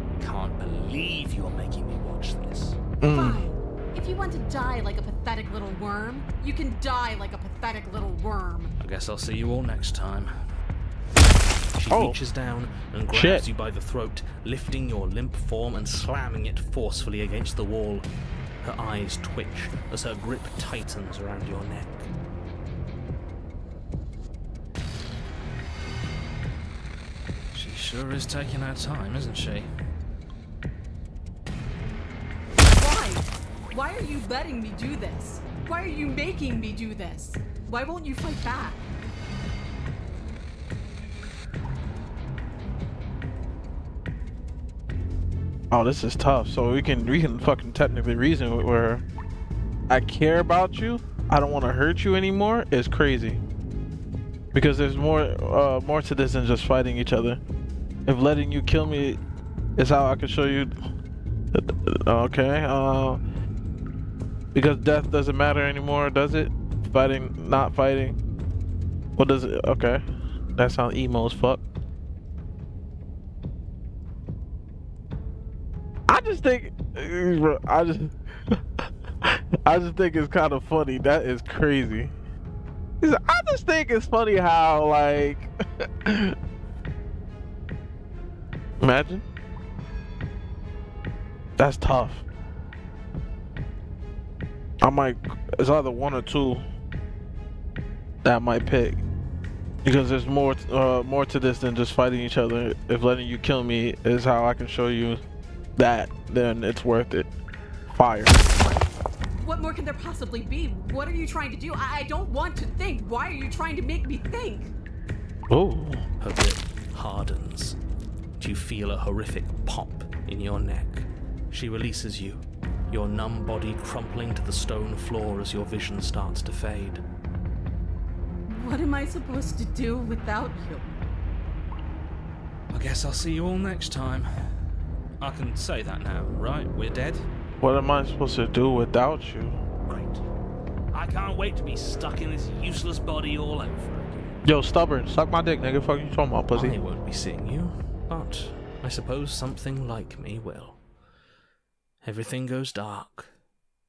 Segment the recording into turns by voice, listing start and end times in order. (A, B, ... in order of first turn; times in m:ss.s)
0:00.2-0:02.8 A
0:03.0-0:03.4 B
0:03.1-0:08.8 C
0:08.8-0:10.3 A
0:11.8-0:18.1 A
0:11.9-0:12.2 B
0:13.1-0:13.5 B
0:18.6-0:22.1 A
0:27.5-0:29.7 A
0:32.7-0:38.9 C
0:45.7-0:49.0 B
0:49.9-0:53.4 B
0:54.5-0:57.4 B
0:58.1-0:59.2 B
0:59.8-1:00.8 B
1:01.5-1:03.2 B
1:04.5-1:08.2 B
1:09.2-1:10.0 B
1:10.6-1:11.6 B
1:16.1-1:18.6 B
1:19.2-1:22.2 B
1:23.0-1:26.4 B
1:28.8-1:29.2 B
1:31.6-1:32.2 B
1:34.8-1:36.6 B
1:38.2-1:39.0 B
1:39.8-1:45.2 B
1:45.8-1:47.3 B
1:47.9-1:48.4 B
1:49.4-1:54.7 C
1:55.5-1:56.0 B
1:56.2-1:57.8 A
1:58.4-2:07.0 A
2:08.5-2:10.9 C
2:12.7-2:14.3 A
2:15.2-2:17.2 A
2:17.6-2:19.6 B
2:19.9-2:20.2 A
2:20.9-2:24.3 A
2:24.4-2:26.8 B
2:26.5-2:30.8 A
2:32.0-2:33.3 A